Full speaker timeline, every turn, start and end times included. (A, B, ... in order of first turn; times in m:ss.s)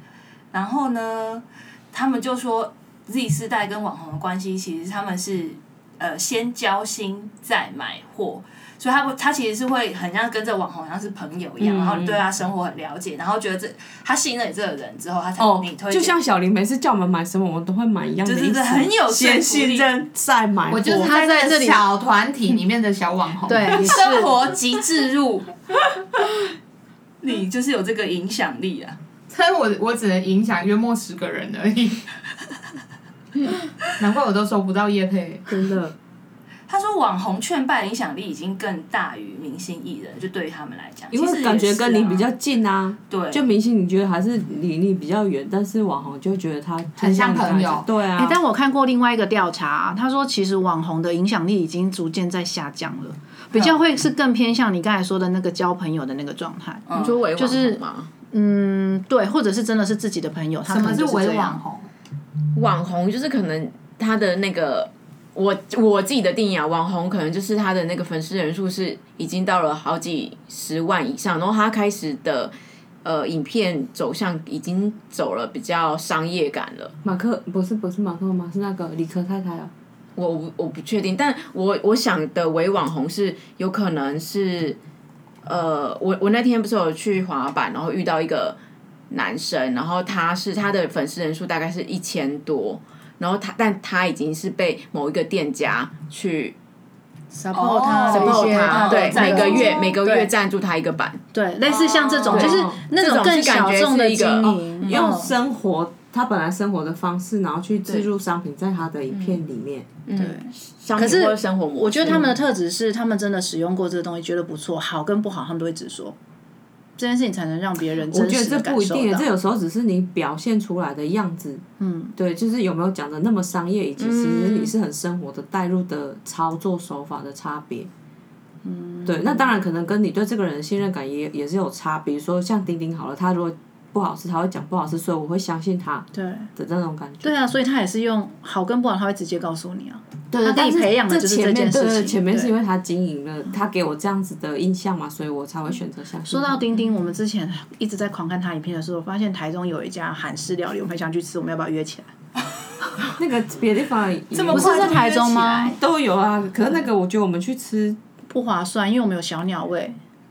0:00.5-0:16.2 A
0:11.6-0:12.2 B
0:15.4-0:21.2 B
0:18.2-0:19.9 A
0:20.7-0:23.8 C
0:21.0-0:21.8 D
0:23.4-0:24.4 D
0:23.7-0:25.5 A
0:27.2-0:29.0 A
0:29.3-0:32.0 C
0:34.0-0:35.5 C
0:35.5-0:35.9 B
0:36.7-0:42.3 A
0:41.1-0:48.4 B
0:43.1-0:43.4 A
0:47.0-0:47.9 C
0:48.1-1:01.6 D
0:56.9-0:57.2 A
0:56.9-0:58.1 E
1:00.7-1:01.9 C
1:02.5-1:16.9 E
1:17.0-1:19.7 B
1:20.2-1:24.8 E
1:25.4-1:28.6 E
1:29.1-1:36.5 E
1:37.3-1:40.3 D
1:37.5-1:40.0 A
1:38.1-1:41.2 E
1:38.9-1:39.3 B
1:41.3-1:45.3 D
1:41.6-1:42.6 A
1:42.3-1:45.1 E
1:42.3-1:42.8 B
1:44.7-1:49.9 B
1:49.1-1:49.4 E
1:50.0-1:52.4 E
1:50.2-1:56.2 D
1:57.0-1:59.3 D
1:58.1-2:01.6 B
2:01.8-2:02.1 D
2:02.2-2:07.9 B
2:04.0-2:04.7 E
2:08.6-2:09.5 D
2:09.0-2:17.3 B
2:16.1-2:16.5 D
2:17.2-2:22.5 D
2:20.3-2:26.6 B
2:26.3-2:32.1 D
2:33.2-2:35.0 B
2:34.3-2:35.8 A
2:34.5-2:35.8 D
2:35.7-2:38.0 B
2:38.3-2:40.0 D